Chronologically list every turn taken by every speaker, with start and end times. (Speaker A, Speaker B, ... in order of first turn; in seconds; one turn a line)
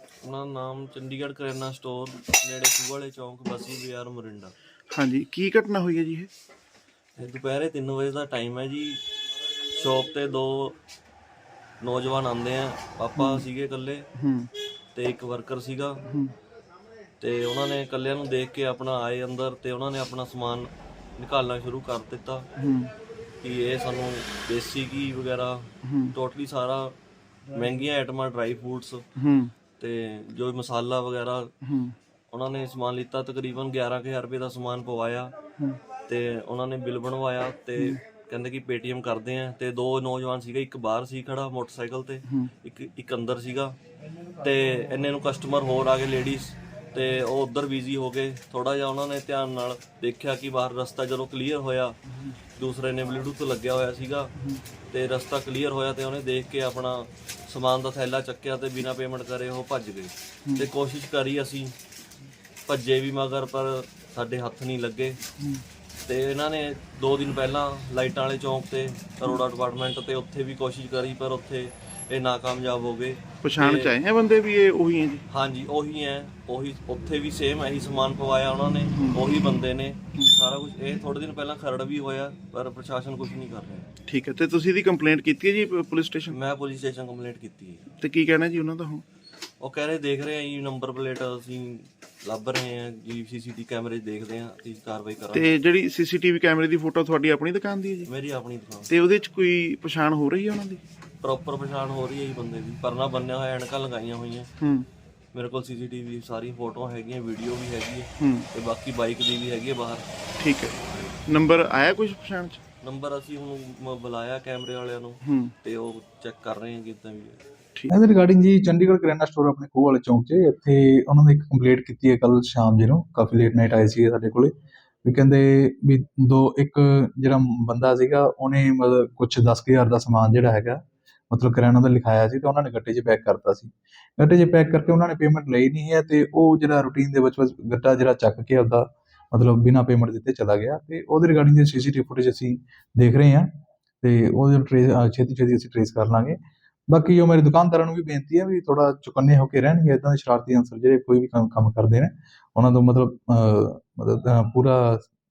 Speaker A: 0.2-4.5
Speaker B: 4.9-6.3
Speaker A: 7.2-9.0
Speaker A: 9.7-10.8
Speaker A: 11.8-14.1
Speaker B: 13.2-13.4
Speaker B: 14.2-14.5
Speaker A: 14.9-16.0
Speaker B: 16.1-16.3
Speaker A: 17.2-20.7
Speaker A: 21.2-22.5
Speaker B: 22.6-22.9
Speaker A: 23.4-26.9
Speaker B: 25.8-26.1
Speaker A: 27.5-29.0
Speaker B: 29.2-29.5
Speaker A: 29.8-31.5
Speaker B: 31.6-31.9
Speaker A: 32.3-35.3
Speaker A: 36.0-43.8
Speaker A: 44.4-52.0
Speaker A: 52.6-54.3
Speaker A: 54.9-61.7
Speaker A: 62.7-65.2
Speaker B: 65.4-65.6
Speaker A: 66.0-74.0
Speaker B: 73.4-75.2
Speaker A: 75.3-83.9
Speaker B: 84.1-86.4
Speaker A: 86.3-87.9
Speaker B: 88.0-89.0
Speaker A: 89.6-95.5
Speaker B: 95.3-98.1
Speaker A: 98.1-98.9
Speaker B: 98.9-100.8
Speaker A: 101.2-104.5
Speaker B: 104.6-104.9
Speaker A: 105.3-110.0
Speaker B: 108.2-108.5
Speaker B: 110.4-112.6
Speaker A: 112.8-117.4
Speaker B: 115.2-115.5
Speaker C: 117.9-124.5
Speaker C: 125.0-143.5
Speaker C: 144.0-146.4
Speaker C: 146.9-155.1